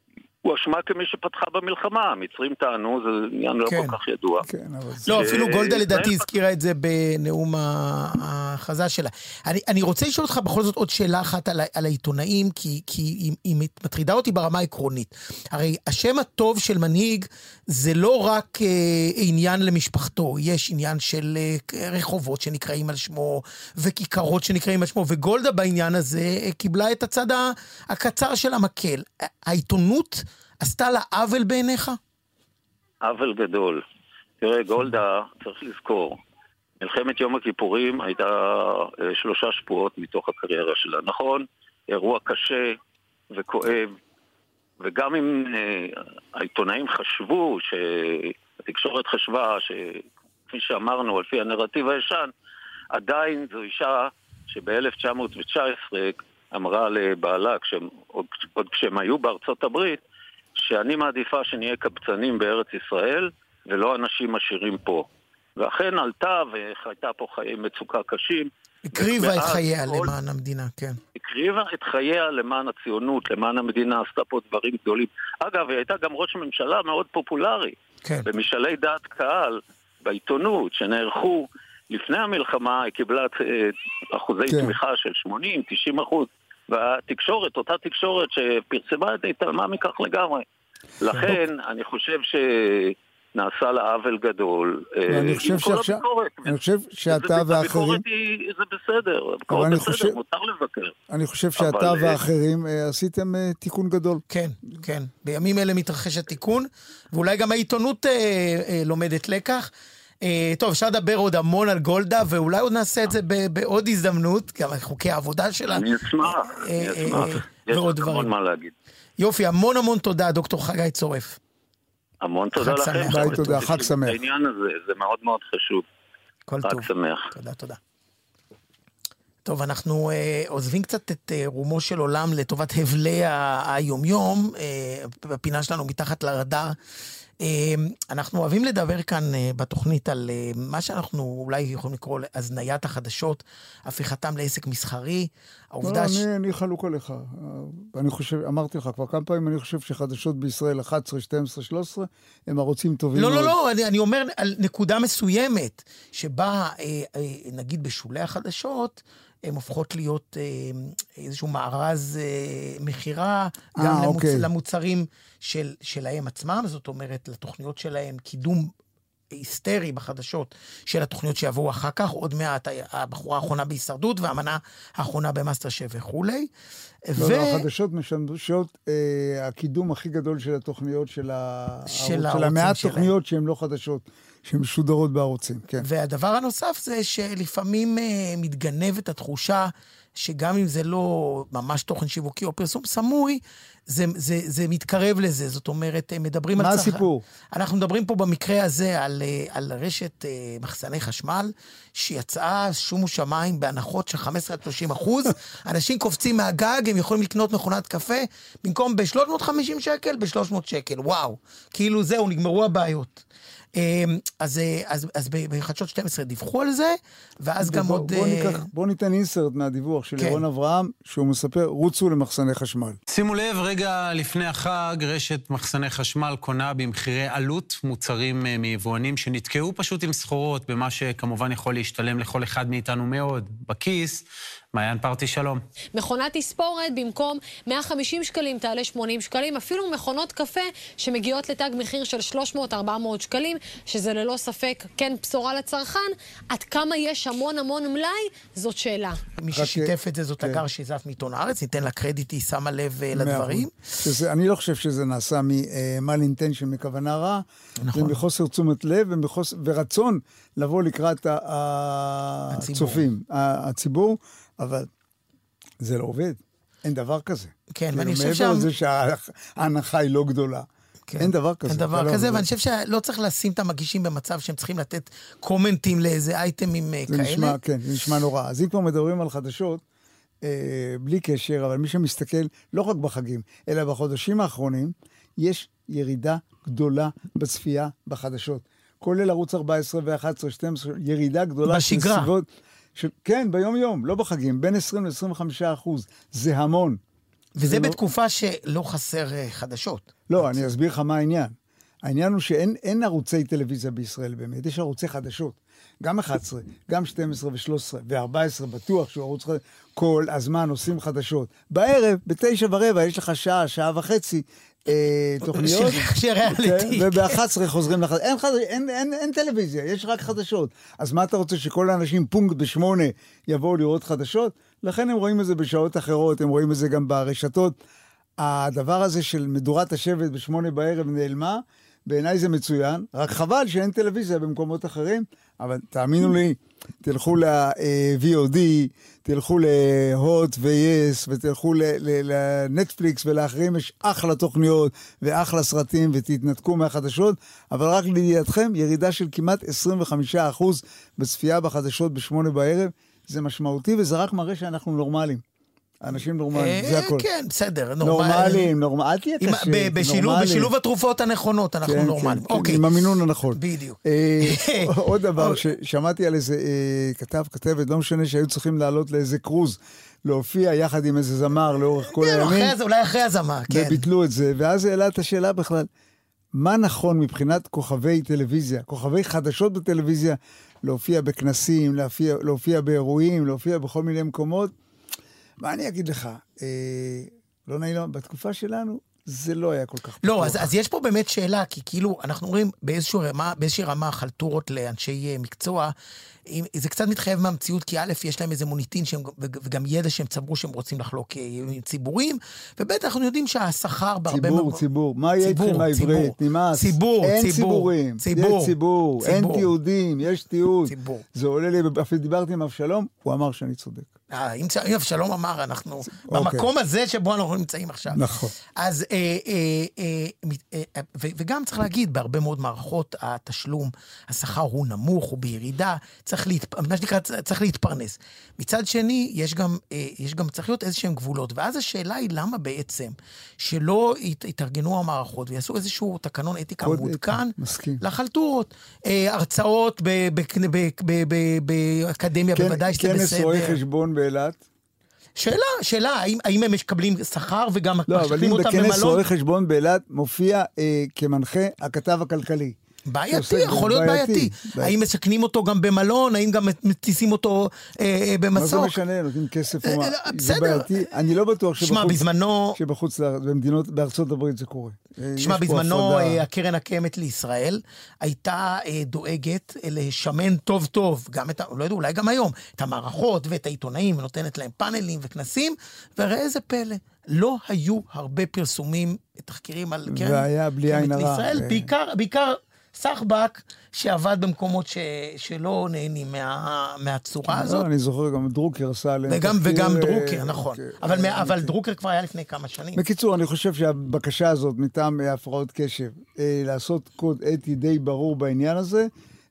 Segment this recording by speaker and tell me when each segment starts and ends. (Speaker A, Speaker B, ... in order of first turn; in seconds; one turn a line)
Speaker A: 0.5-4.5
Speaker B: 3.7-4.0
Speaker C: 4.5-5.2
Speaker B: 5.1-32.0
Speaker A: 5.1-6.2
Speaker A: 33.0-33.8
Speaker A: 34.4-36.2
Speaker A: 36.8-42.8
Speaker A: 43.3-44.0
Speaker A: 44.8-52.3
Speaker A: 52.9-60.0
Speaker A: 60.6-65.1
Speaker A: 65.6-70.1
Speaker B: 68.9-71.0
Speaker A: 71.2-77.8
Speaker A: 78.2-90.5
Speaker C: 84.5-84.8
Speaker A: 91.0-101.0
Speaker C: 95.1-98.0
Speaker C: 99.5-100.2
Speaker C: 101.1-104.2
Speaker A: 101.6-102.2
Speaker B: 104.3-109.7
Speaker B: 110.2-118.3
Speaker A: 115.7-118.7
Speaker B: 119.2-121.4
Speaker A: 122.2-125.8
Speaker B: 122.6-123.8
Speaker C: 123.1-124.2
Speaker B: 126.5-127.8
Speaker A: 126.6-127.3
Speaker B: 129.4-136.8
Speaker B: 137.4-146.2
Speaker C: 145.8-153.6
Speaker B: 153.2-168.7
Speaker C: 163.8-164.5
Speaker B: 169.3-176.5
Speaker B: 177.1-177.6
Speaker C: 177.2-185.8
Speaker B: 181.9-183.1
Speaker B: 185.8-213.2
Speaker C: 196.6-197.2
Speaker B: 213.8-218.7
Speaker C: 217.6-223.0
Speaker D: 223.1-235.6
Speaker E: 235.9-249.2
Speaker B: 249.4-253.7
Speaker C: 249.5-250.6
Speaker C: 253.1-264.9
Speaker B: 257.8-258.2
Speaker B: 262.5-263.0
Speaker C: 265.8-272.5
Speaker B: 267.8-268.6
Speaker B: 271.1-277.6
Speaker C: 277.1-279.8
Speaker C: 280.4-297.0
Speaker B: 291.7-292.3
Speaker B: 297.6-300.6
Speaker C: 297.6-298.0
Speaker C: 300.3-327.8
Speaker B: 315.5-317.4
Speaker C: 328.4-355.4
Speaker C: 356.0-357.2
Speaker B: 356.6-358.7
Speaker C: 358.0-360.7
Speaker B: 359.4-362.8
Speaker C: 361.9-372.7
Speaker B: 363.5-365.6
Speaker B: 372.2-374.1
Speaker C: 373.7-375.9
Speaker C: 376.5-384.7
Speaker C: 385.6-390.7
Speaker B: 390.2-395.9
Speaker B: 396.5-404.8
Speaker C: 404.3-414.1
Speaker B: 405.4-408.7
Speaker B: 409.2-409.7
Speaker B: 410.9-411.2
Speaker B: 414.3-418.2
Speaker C: 416.1-416.7
Speaker C: 418.1-418.5
Speaker B: 418.8-443.8
Speaker C: 436.8-438.0
Speaker C: 442.5-444.6
Speaker B: 445.4-449.2
Speaker C: 448.1-452.8
Speaker B: 453.1-459.0
Speaker C: 453.3-454.9
Speaker C: 458.5-466.4
Speaker B: 459.8-461.0
Speaker B: 461.8-462.8
Speaker B: 465.4-487.9
Speaker C: 480.1-481.9
Speaker C: 487.4-491.7
Speaker B: 489.3-493.0
Speaker C: 492.9-499.1